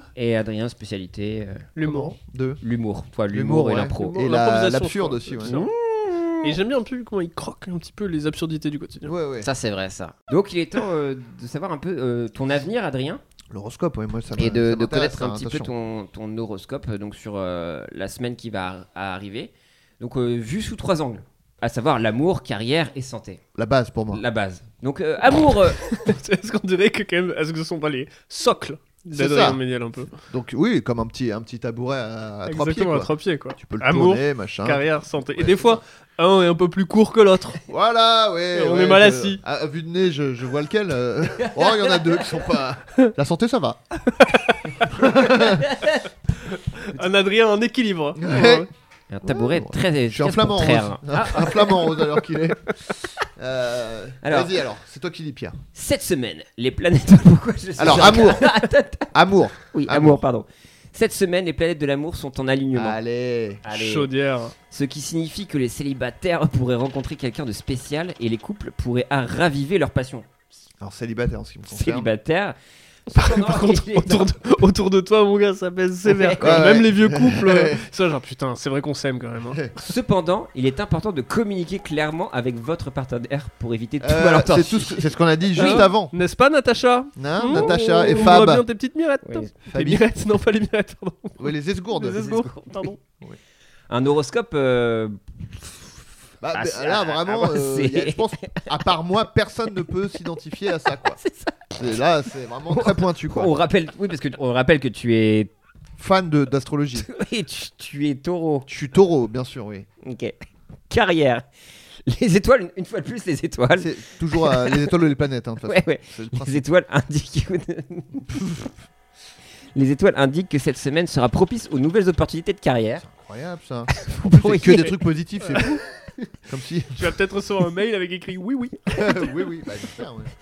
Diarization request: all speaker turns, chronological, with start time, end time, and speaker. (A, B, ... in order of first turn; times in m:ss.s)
0:00.1-0:01.7 A
0:01.8-0:02.1 B
0:01.8-0:02.6 C
0:02.6-0:04.2 A
0:03.3-0:05.6 C
0:03.9-0:05.7 B
0:05.4-0:06.6 A
0:06.4-0:09.1 B
0:09.0-0:09.5 C
0:09.4-0:13.2 A
0:13.5-0:15.7 C
0:14.4-0:23.4 A
0:23.6-0:24.2 C
0:24.1-0:25.8 A
0:25.9-0:30.1 B
0:29.1-0:29.6 C
0:30.1-0:34.8 C
0:32.5-0:37.6 B
0:35.3-0:35.8 C
0:37.7-0:43.8 C
0:38.5-0:39.4 B
0:41.6-0:41.9 A
0:44.2-0:44.7 B
0:44.9-0:45.6 C
0:45.6-0:46.0 A
0:46.8-0:48.7 B
0:48.2-0:48.7 C
0:49.1-0:51.9 A
0:49.2-0:52.7 C
0:53.4-0:55.6 C
0:54.2-0:54.5 A
0:55.7-0:59.1 A
0:57.8-0:58.5 C
0:59.1-1:00.2 C
0:59.7-1:03.0 A
1:02.7-1:03.6 C
1:03.6-1:04.1 A
1:03.7-1:04.5 B
1:04.7-1:10.3 A
1:10.8-1:12.1 C
1:11.7-1:12.6 A
1:13.1-1:14.3 A
1:13.1-1:19.6 B
1:16.1-1:16.6 A
1:16.4-1:17.8 C
1:19.8-1:25.9 A
1:24.0-1:26.1 C
1:25.6-1:33.0 B
1:27.2-1:28.6 C
1:29.2-1:29.5 A
1:29.7-1:30.0 C
1:31.4-1:32.2 C
1:32.0-1:32.9 A
1:33.9-1:38.7 A
1:36.4-1:41.2 C
1:41.2-1:41.7 A
1:41.8-1:43.5 C
1:42.7-1:45.5 A
1:46.0-1:47.1 C
1:47.0-1:48.7 A
1:48.7-1:49.9 C
1:50.0-1:50.4 A
1:50.9-1:51.4 A
1:52.0-1:54.9 A
1:53.7-1:56.6 C
1:55.6-1:58.4 A
1:58.3-1:58.7 C
1:59.7-2:03.0 A
2:03.0-2:05.8 C
2:04.0-2:04.9 A
2:06.5-2:07.1 C
2:07.0-2:09.1 B
2:08.9-2:10.3 C